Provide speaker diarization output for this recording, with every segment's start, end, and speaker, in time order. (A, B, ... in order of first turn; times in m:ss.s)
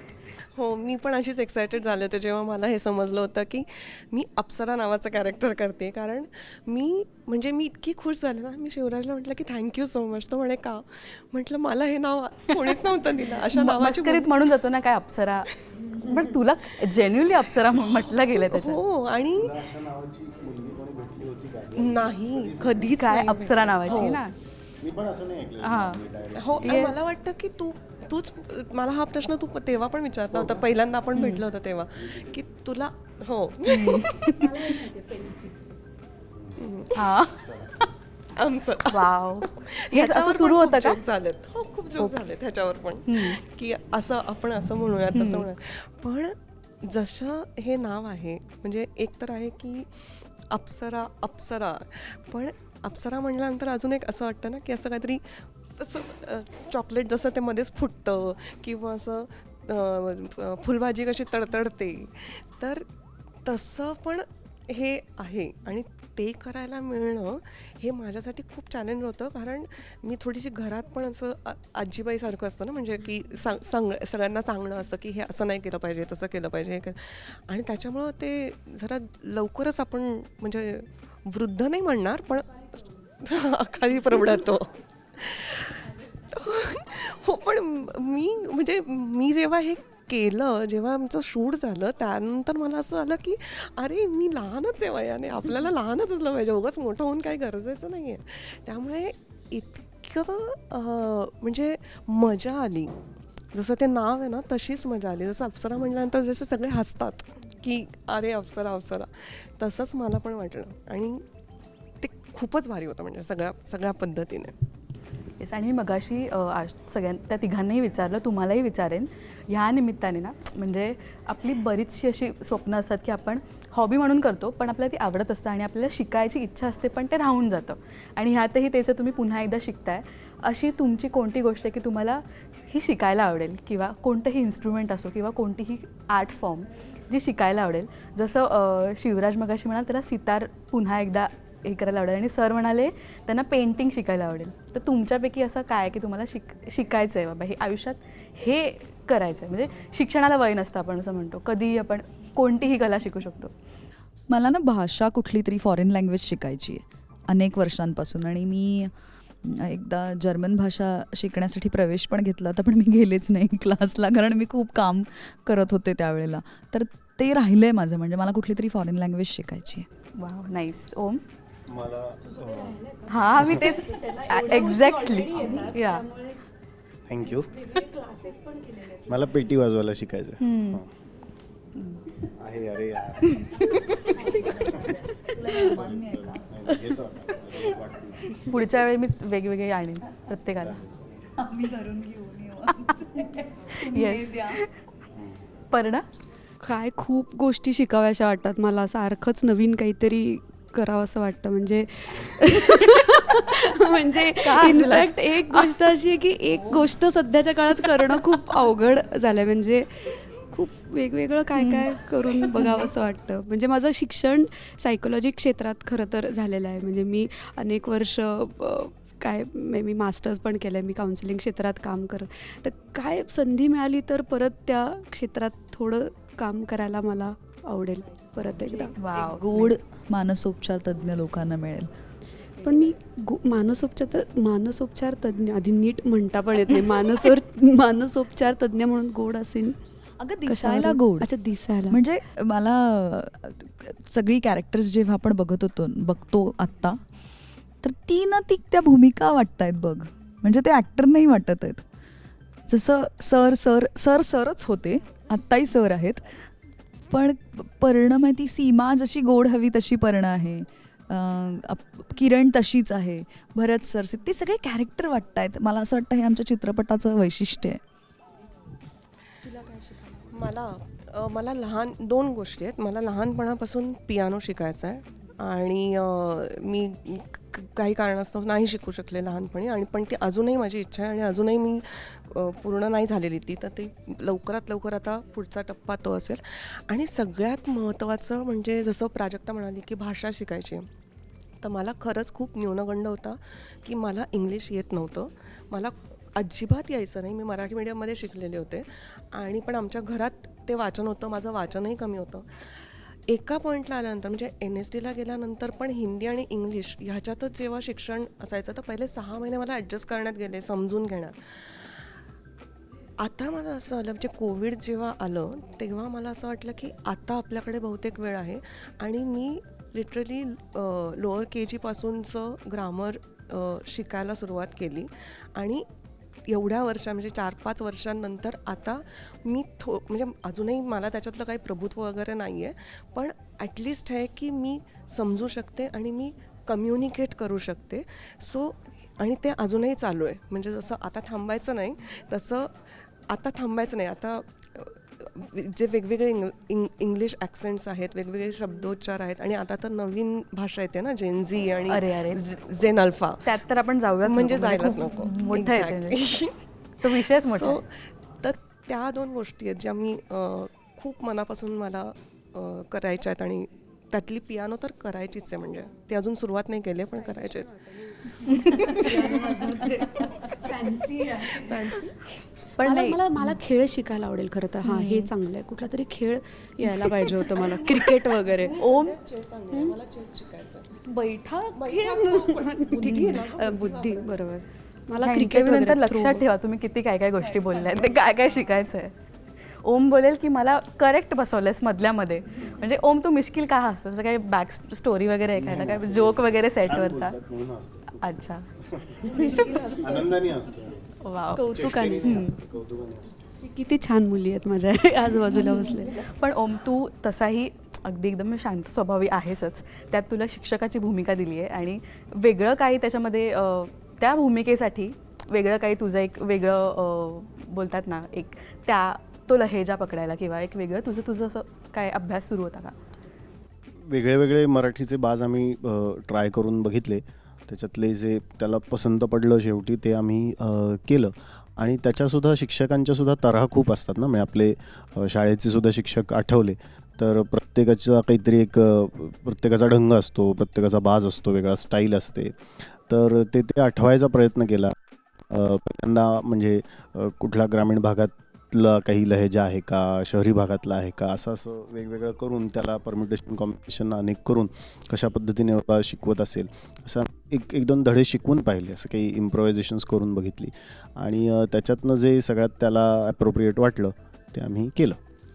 0:00.6-0:14.3 A
0:13.5-0:18.8 B
0:17.8-0:19.5 A
0:19.3-0:22.9 C
0:21.8-0:24.2 A
0:23.0-0:24.4 B
0:23.8-0:24.2 C
0:24.8-0:27.0 C
0:25.6-0:26.0 B
0:26.3-0:34.8 A
0:26.6-0:27.1 B
0:30.3-0:30.7 C
0:31.1-0:31.4 B
0:32.0-0:32.4 C
0:33.6-0:34.3 B
0:34.3-0:35.7 D
0:36.6-0:37.2 A
0:36.9-0:37.9 B
0:37.4-0:37.7 C
0:38.3-1:02.9 A
0:38.8-0:41.0 B
0:43.1-0:43.4 B
0:45.1-0:45.5 B
1:03.4-1:42.9 A
1:43.5-1:51.2 A
1:52.0-1:54.5 A
1:55.4-2:33.5 B
2:34.3-2:38.9 E
2:39.4-2:49.8 E
2:50.2-2:51.2 B
2:51.7-2:52.8 C
2:52.2-2:56.4 D
2:53.1-2:56.0 B
2:57.1-2:57.8 C
2:57.2-2:59.2 D
2:59.0-3:00.9 C
3:00.4-3:00.8 B
3:01.8-3:02.0 B
3:02.4-3:08.5 C
3:03.2-3:04.3 B
3:04.9-3:06.6 E
3:08.4-3:10.8 B
3:10.6-3:11.2 C
3:11.4-3:14.6 E
3:13.7-3:14.7 B
3:15.7-3:16.0 B
3:16.6-3:49.0 D
3:24.3-3:25.9 B
3:31.5-3:31.9 B
3:49.0-3:49.7 B
3:49.1-3:51.9 E
3:52.6-3:59.8 D
4:00.2-4:01.3 E
4:00.4-4:02.0 D
4:01.9-4:07.0 E
4:07.8-4:11.8 E
4:12.7-4:16.2 E
4:17.1-4:27.8 E
4:29.4-4:30.2 D
4:30.3-4:50.9 A
4:51.6-5:12.0 A
5:13.2-5:25.8 A
5:26.5-5:53.6 A
5:51.9-5:52.4 B
5:53.4-5:56.2 B
5:54.2-5:56.5 A
5:57.0-5:57.8 B
5:57.0-6:09.8 A
6:08.4-6:09.4 B
6:08.6-6:11.8 D
6:11.4-6:12.3 A
6:12.7-6:13.6 B
6:12.8-6:18.7 D
6:14.8-6:15.3 B
6:16.8-6:17.8 B
6:17.6-6:21.0 A
6:18.8-6:19.2 B
6:21.0-6:26.4 D
6:21.7-6:24.5 A
6:23.1-6:23.4 B
6:25.2-6:29.1 B
6:29.8-6:37.4 B
6:35.6-6:43.5 C
6:38.2-6:38.7 B
6:39.2-6:40.4 D
6:41.2-6:42.5 B
6:41.5-6:42.5 D
6:43.6-6:46.2 D
6:45.5-7:02.9 B
7:04.0-7:25.0 C
7:25.5-7:45.2 C